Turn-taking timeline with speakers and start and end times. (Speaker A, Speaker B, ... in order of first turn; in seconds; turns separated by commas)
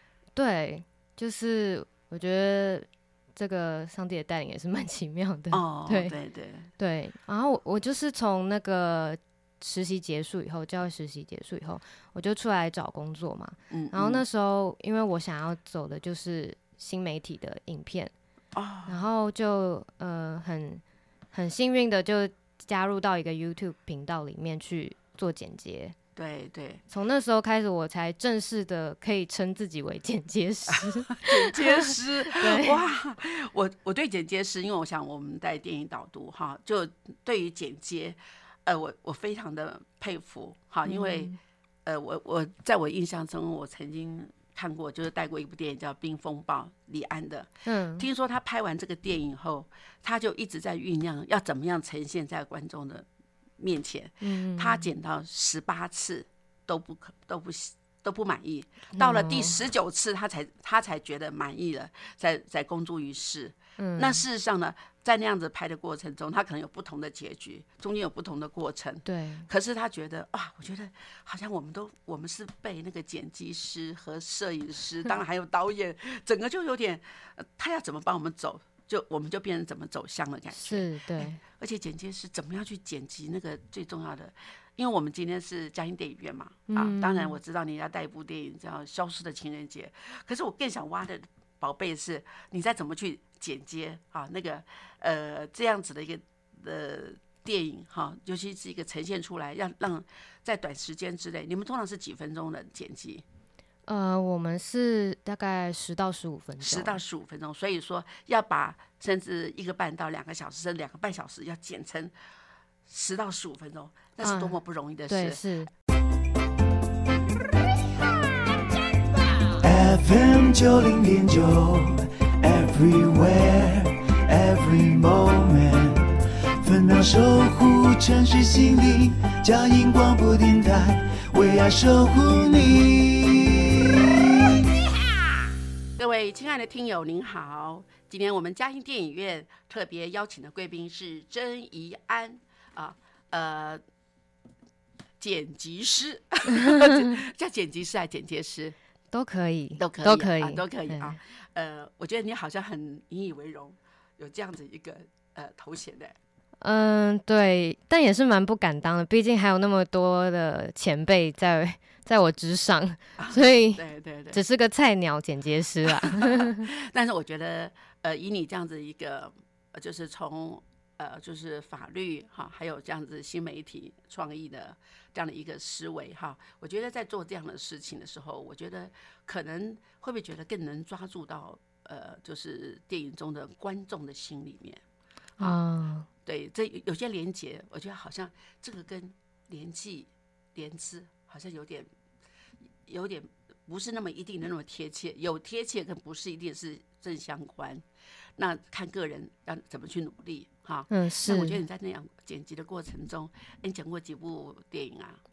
Speaker A: 0.4-6.2, Speaker B: 5.5-6.7, Speaker A: 6.8-18.1, Speaker B: 13.7-14.2, Speaker B: 18.5-19.0, Speaker A: 18.9-20.8, Speaker A: 21.3-25.9, Speaker B: 26.2-26.8, Speaker A: 26.9-32.8, Speaker B: 31.2-41.3, Speaker A: 40.9-41.4, Speaker B: 41.9-53.1, Speaker A: 47.6-48.1, Speaker B: 53.6-103.2, Speaker A: 54.2-54.9, Speaker A: 59.0-59.6, Speaker A: 63.8-64.2, Speaker A: 69.0-69.5, Speaker A: 80.5-81.4, Speaker A: 86.7-87.4, Speaker A: 103.9-107.0, Speaker B: 106.6-112.1, Speaker B: 112.9-115.4, Speaker A: 114.2-115.7, Speaker C: 119.6-134.6, Speaker B: 136.0-143.8, Speaker B: 145.2-148.8, Speaker A: 149.1-151.2, Speaker B: 149.8-156.2, Speaker A: 156.6-166.6, Speaker B: 163.2-164.4, Speaker B: 165.9-184.8, Speaker A: 185.4-186.1, Speaker B: 186.3-191.9, Speaker B: 192.9-197.8, Speaker B: 198.4-205.2, Speaker A: 200.9-201.6